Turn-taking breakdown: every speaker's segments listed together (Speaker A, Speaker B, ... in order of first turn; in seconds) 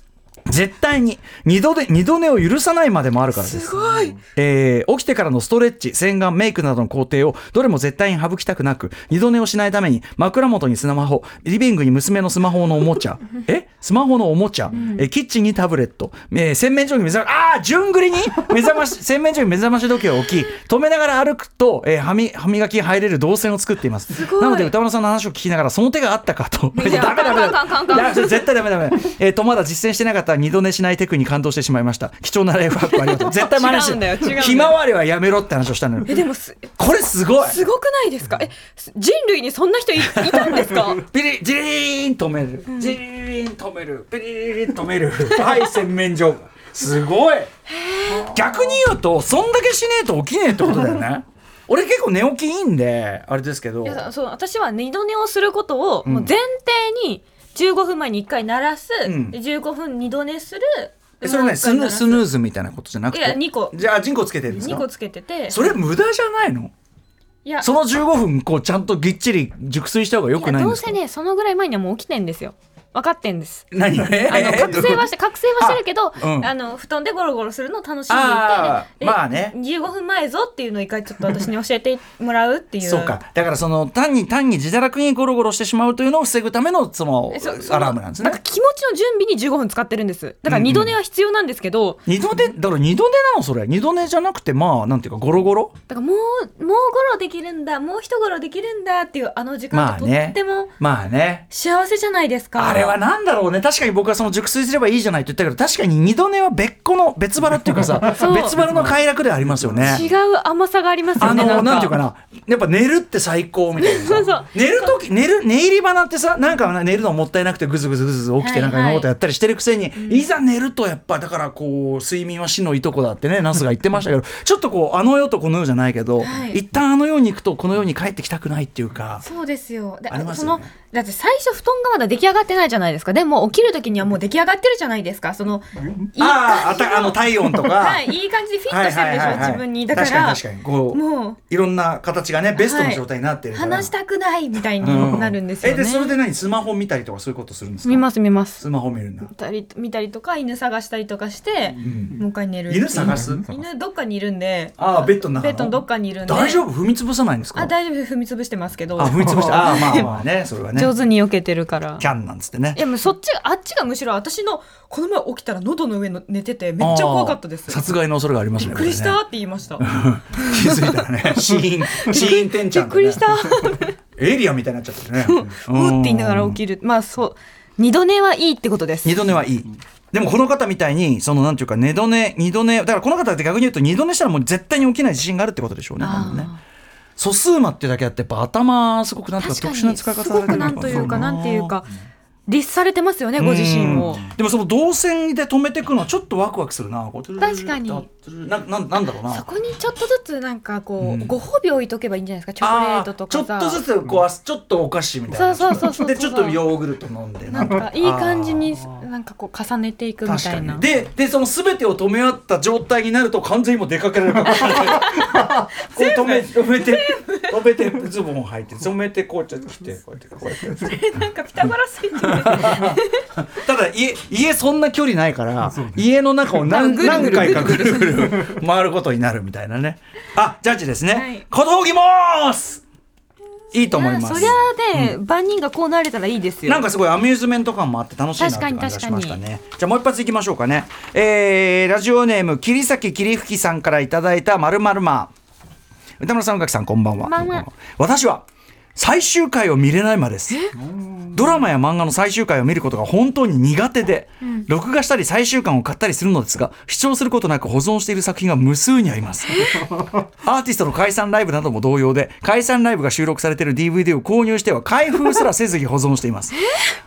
Speaker A: 0.5-36.1, 36.8-37.6, 40.1-47.5, 48.1-54.0, 56.0-56.3, 59.0-59.4, 61.2-64.8, 65.5-66.7, 67.6-71.0, 73.7-75.1, 75.6-76.5, 78.1-79.5, 82.8-88.4, 90.5-90.9, 92.0-95.7, 99.7-101.4, 102.5-110.0, 111.2-129.2, 130.1-130.7, 136.2-138.1, 138.7-143.9, 144.8-148.1, 148.6-149.3, 151.8-153.5, 154.8-157.7, 159.0-160.9, 162.0-162.8, 166.8-169.2, 169.8-173.6, 174.2-176.6, 179.0-186.5, 187.2-191.7, 193.4-199.4, 201.0-201.3, 202.6-208.8, 210.2-220.9, 222.2-232.8, 233.7-235.2, 236.7-245.3, 246.2-248.4, 248.9-250.6, 251.3-259.8, 260.4-266.6
Speaker B: 3.3-4.2, 14.7-15.0, 24.1-24.7, 26.7-28.5, 33.0-34.8, 36.1-36.7, 37.4-41.0, 47.7-48.4, 53.8-62.2, 63.1-63.8, 64.5-65.8, 67.4-67.7, 70.3-73.7, 74.2-83.2, 87.3-92.1, 95.9-100.7, 101.5-103.0, 108.2-108.6, 109.8-112.0, 113.8-115.0, 118.4-119.1, 120.0-120.3, 126.2-126.6, 129.2-141.4, 142.6-146.2, 147.8-148.6, 149.3-156.6, 157.5-160.1, 160.7-162.0, 162.7-167.8, 168.6-171.1, 171.6-173.9, 175.2-179.2, 186.0-186.6, 189.4-191.9, 192.5-194.3, 197.4-198.1, 199.3-203.8, 205.3-206.6, 207.5-210.8, 214.5-217.5, 220.6-223.2, 226.7-228.4, 231.1-231.4, 233.9-236.9, 238.4-239.4, 247.2-247.7, 250.5-250.7, 259.6-259.8